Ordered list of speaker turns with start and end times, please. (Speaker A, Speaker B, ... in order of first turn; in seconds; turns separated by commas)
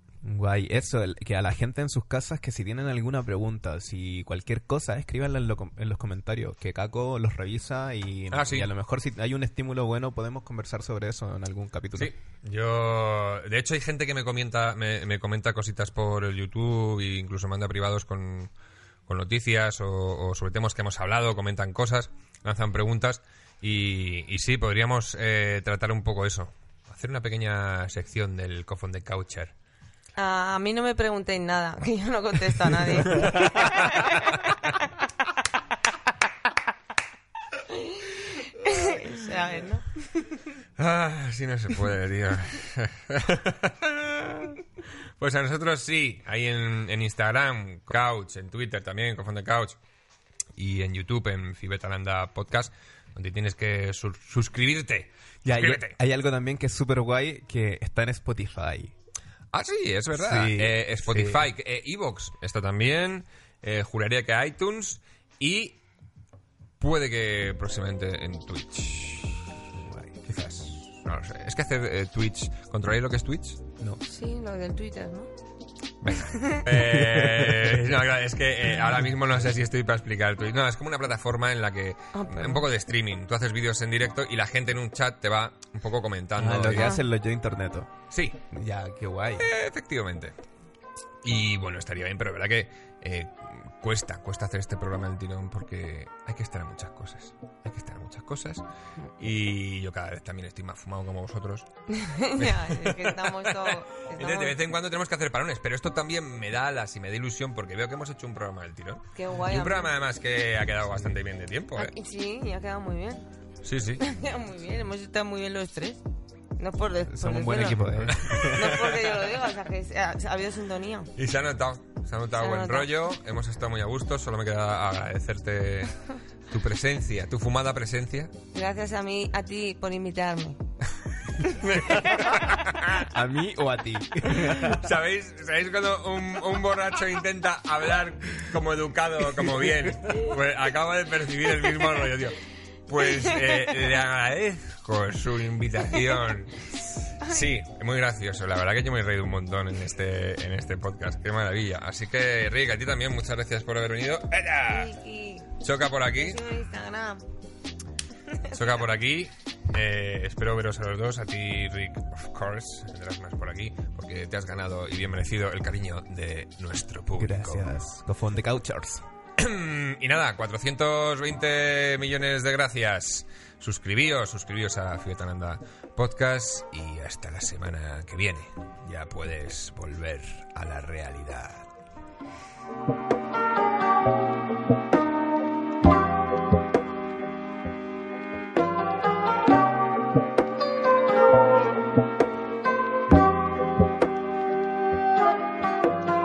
Speaker A: 0.2-12.1, Speaker B: 8.3-8.7, Speaker B: 12.0-18.5, Speaker B: 19.1-29.5, Speaker C: 30.2-34.8, Speaker B: 33.1-33.9, Speaker C: 37.7-40.4, Speaker B: 40.8-44.6, Speaker B: 45.2-49.8, Speaker B: 50.6-55.9, Speaker A: 55.4-59.0, Speaker B: 59.5-65.8, Speaker A: 60.1-61.5, Speaker B: 66.8-73.6, Speaker C: 74.0-75.3, Speaker B: 76.0-86.9, Speaker C: 76.3-76.7, Speaker A: 76.7-77.9, Speaker C: 82.1-82.7, Speaker A: 86.4-89.5, Speaker C: 86.8-87.0, Speaker B: 89.4-90.3, Speaker B: 91.2-98.6, Speaker B: 99.2-101.7, Speaker C: 101.9-104.6, Speaker B: 102.4-111.9, Speaker C: 109.2-109.9, Speaker C: 111.8-113.3, Speaker B: 113.6-114.0, Speaker C: 114.0-116.0, Speaker C: 116.6-121.1, Speaker A: 117.1-118.8, Speaker B: 118.1-119.0, Speaker B: 121.2-128.3, Speaker C: 122.4-122.9, Speaker C: 128.5-130.6, Speaker B: 131.4-133.1, Speaker C: 131.9-132.3, Speaker A: 133.1-134.9, Speaker B: 134.3-154.9, Speaker C: 154.7-155.5, Speaker B: 155.6-156.4, Speaker C: 156.1-157.2, Speaker C: 158.3-158.7, Speaker B: 158.5-167.7, Speaker A: 167.2-169.1, Speaker B: 169.4-181.7